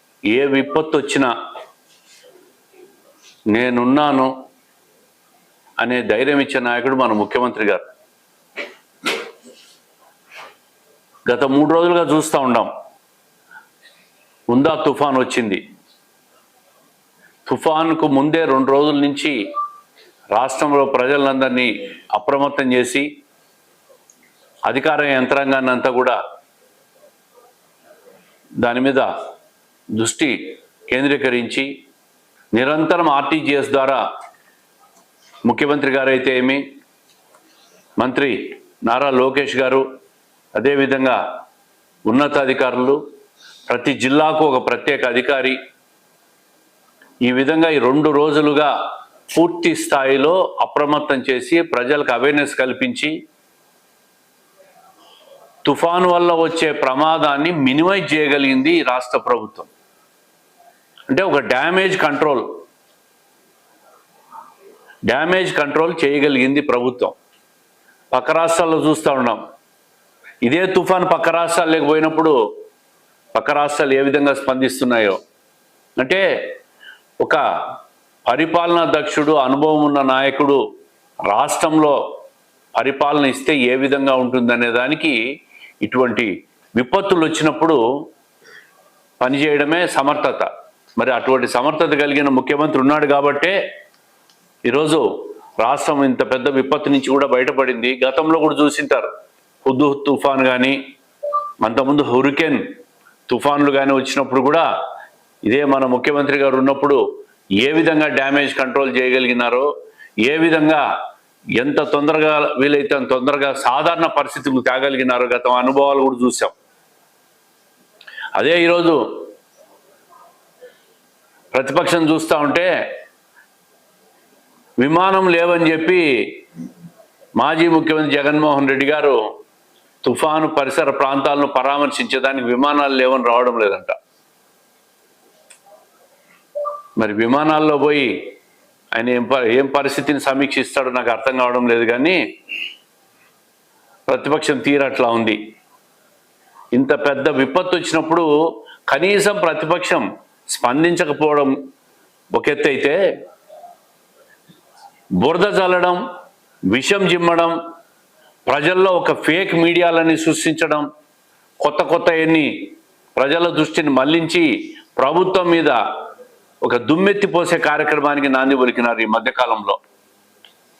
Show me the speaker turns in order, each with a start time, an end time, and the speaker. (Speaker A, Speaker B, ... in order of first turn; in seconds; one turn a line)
Speaker A: 0.3-1.3
Speaker A: 3.5-4.3
Speaker A: 5.8-7.8
Speaker A: 11.2-12.7
Speaker A: 14.5-15.6
Speaker A: 17.5-19.4
Speaker A: 20.3-23.1
Speaker A: 24.7-26.2
Speaker A: 28.6-29.1
Speaker A: 29.9-31.7
Speaker A: 32.5-34.0
Speaker A: 35.4-36.6
Speaker A: 38.0-39.8
Speaker A: 40.5-41.2
Speaker A: 42.0-43.0
Speaker A: 43.7-45.6
Speaker A: 47.2-48.7
Speaker A: 49.3-53.1
Speaker A: 55.6-59.7
Speaker A: 61.1-62.5
Speaker A: 65.1-67.1
Speaker A: 68.1-69.4
Speaker A: 70.4-72.3
Speaker A: 73.3-75.2
Speaker A: 76.0-76.2
Speaker A: 78.3-80.6
Speaker A: 81.3-82.0
Speaker A: 82.7-85.2
Speaker A: 85.8-87.8
Speaker A: 89.2-93.5
Speaker A: 94.7-95.0
Speaker A: 95.6-99.1
Speaker A: 99.6-100.8
Speaker A: 101.6-102.6
Speaker A: 103.3-104.7
Speaker A: 105.5-107.0
Speaker A: 107.6-109.7
Speaker A: 110.2-110.8
Speaker A: 111.6-116.5
Speaker A: 118.3-119.0
Speaker A: 121.5-122.7
Speaker A: 124.8-126.0
Speaker A: 127.4-129.2
Speaker A: 130.0-133.9
Speaker A: 137.0-138.2
Speaker A: 138.9-142.2
Speaker A: 144.1-145.4
Speaker A: 146.7-148.3
Speaker A: 148.9-151.5
Speaker A: 152.3-153.0
Speaker A: 155.2-156.0
Speaker A: 156.7-157.5
Speaker A: 158.5-160.8
Speaker A: 161.6-162.5
Speaker A: 163.2-165.8
Speaker A: 166.6-169.8